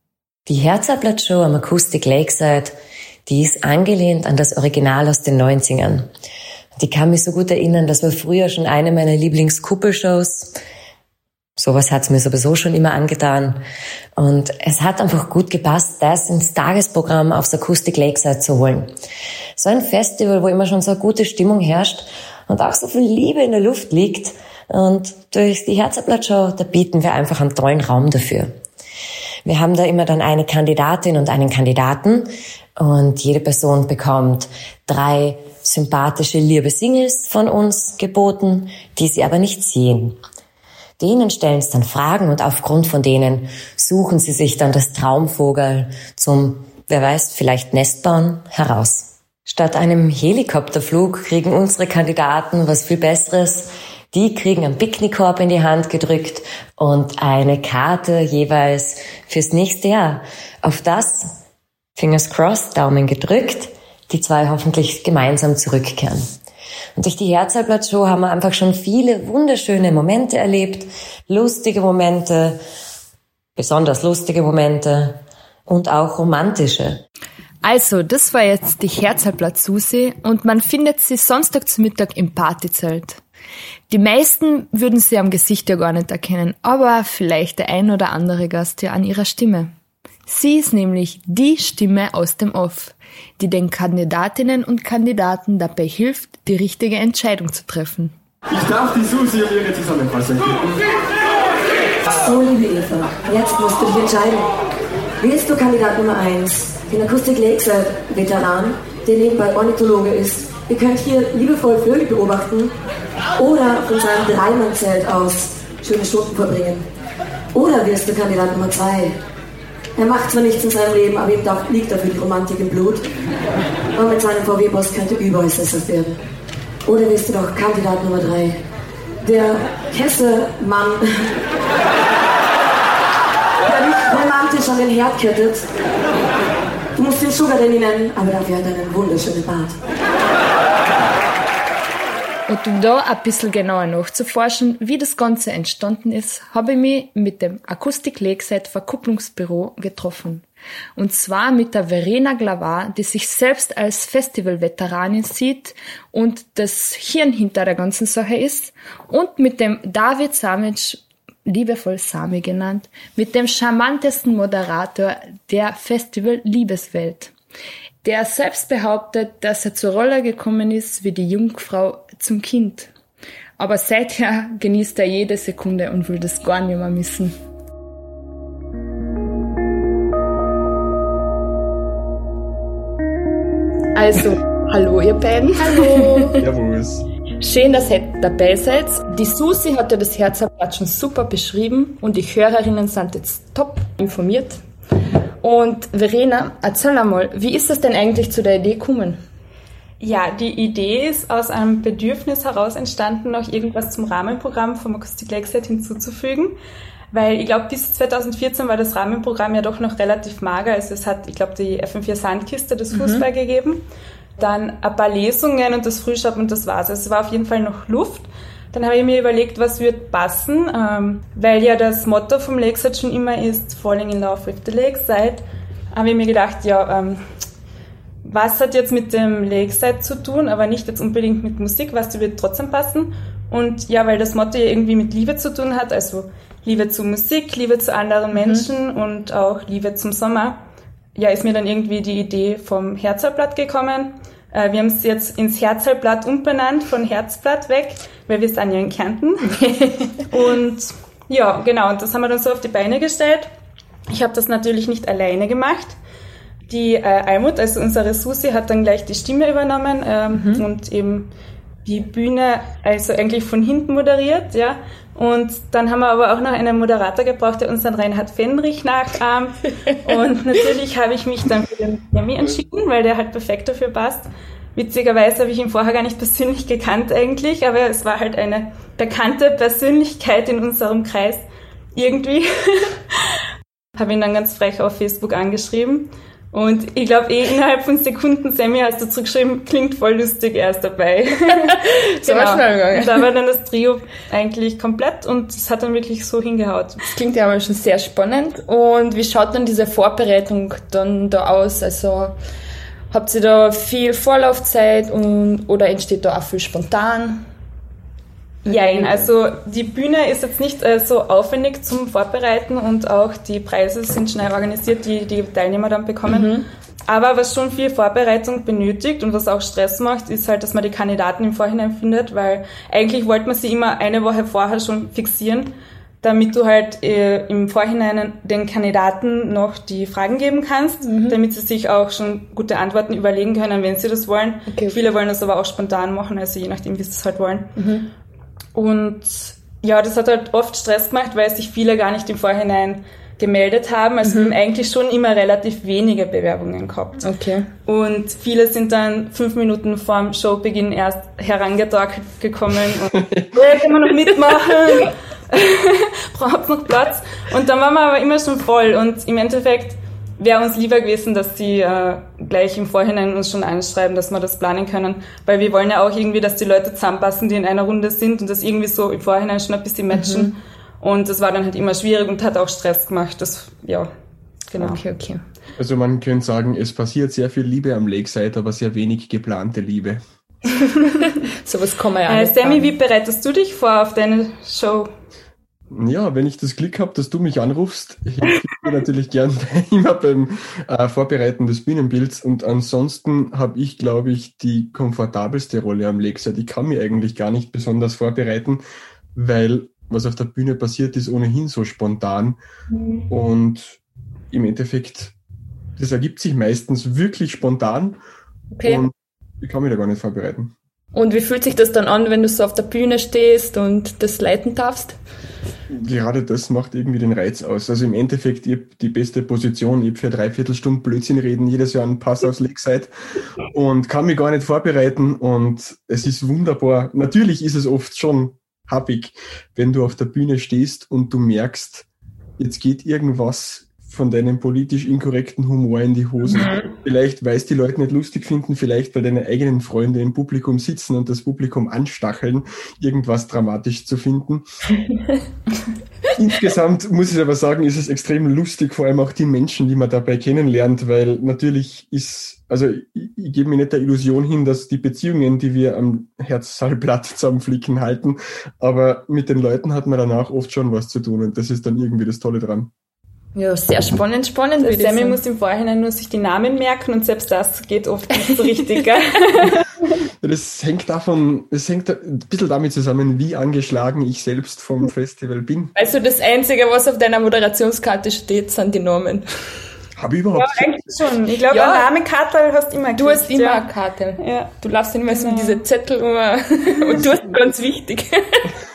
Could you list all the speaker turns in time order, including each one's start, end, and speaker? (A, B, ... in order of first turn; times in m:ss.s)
0:00.5-0:06.1 A
0:06.8-0:10.5 A
0:11.6-0:13.6 A
0:14.2-0:18.9 A
0:19.6-0:28.5 A
0:29.4-0:40.2 A
0:41.0-1:01.3 A
1:02.0-1:06.3 A
1:07.0-1:12.6 A
1:13.6-1:17.0 A
1:17.6-1:23.2 B
1:23.9-1:29.7 B
1:30.3-1:38.1 B
1:38.5-1:40.8 C
1:42.1-1:44.5 D
1:45.2-1:52.7 D
1:53.4-1:56.8 D
1:57.5-1:59.2 D
2:00.0-2:03.0 D
2:03.9-2:06.2 D
2:06.8-2:08.6 D
2:09.2-2:11.3 D
2:13.7-2:15.6 D
2:17.0-2:19.8 D
2:22.5-2:47.3 B
2:48.0-2:52.9 B
2:53.6-2:57.4 B
3:03.9-3:06.4 B
3:06.4-3:07.0 C
3:07.4-3:14.6 B
3:15.4-3:19.2 B
3:20.0-3:26.6 E
3:27.1-3:33.8 E
3:32.9-3:33.2 B
3:34.4-3:47.2 E
3:48.2-4:00.6 E
3:58.4-3:58.6 B
4:01.2-4:13.5 E
4:09.5-4:10.1 B
4:14.1-4:16.0 E
4:16.7-4:21.3 E
4:20.3-4:20.6 B
4:21.8-4:43.2 E
4:43.9-4:57.0 E
4:51.7-4:53.3 B
4:57.1-5:02.4 B
5:03.1-5:07.4 B
5:08.6-5:09.3 B
5:08.6-5:37.8 E
5:16.3-5:16.7 B
5:31.0-5:31.4 B
5:34.7-5:35.0 B
5:37.8-5:38.1 B
5:38.7-5:47.2 E
5:44.2-5:44.6 B
5:47.2-5:47.7 B
5:47.8-6:14.1 E
5:53.6-5:55.0 B
6:10.1-6:10.5 B
6:14.7-6:15.0 E
6:14.8-6:15.4 B
6:15.8-6:20.2 C
6:21.6-6:22.9 B
6:22.3-6:25.1 E
6:25.9-6:38.8 C
6:39.3-6:42.6 C
6:42.9-6:43.2 B
6:43.3-6:44.0 C
6:44.5-6:45.3 C
6:46.0-6:48.2 C
6:48.7-6:49.0 B
6:48.8-6:50.7 C
6:51.1-6:55.2 B
6:55.9-7:03.1 C
7:03.7-7:12.1 C
7:12.6-7:24.7 C
7:16.5-7:16.9 B
7:26.4-7:42.9 C
7:43.6-7:45.4 B
7:44.8-7:50.1 E
7:48.5-7:48.9 B
7:50.4-7:55.9 C
7:56.0-7:59.4 B
8:00.2-8:01.0 C
8:00.5-8:03.8 E
8:01.7-8:02.1 B
8:03.2-8:08.7 B
8:04.4-8:04.7 E
8:05.3-8:05.8 E
8:07.0-8:07.6 E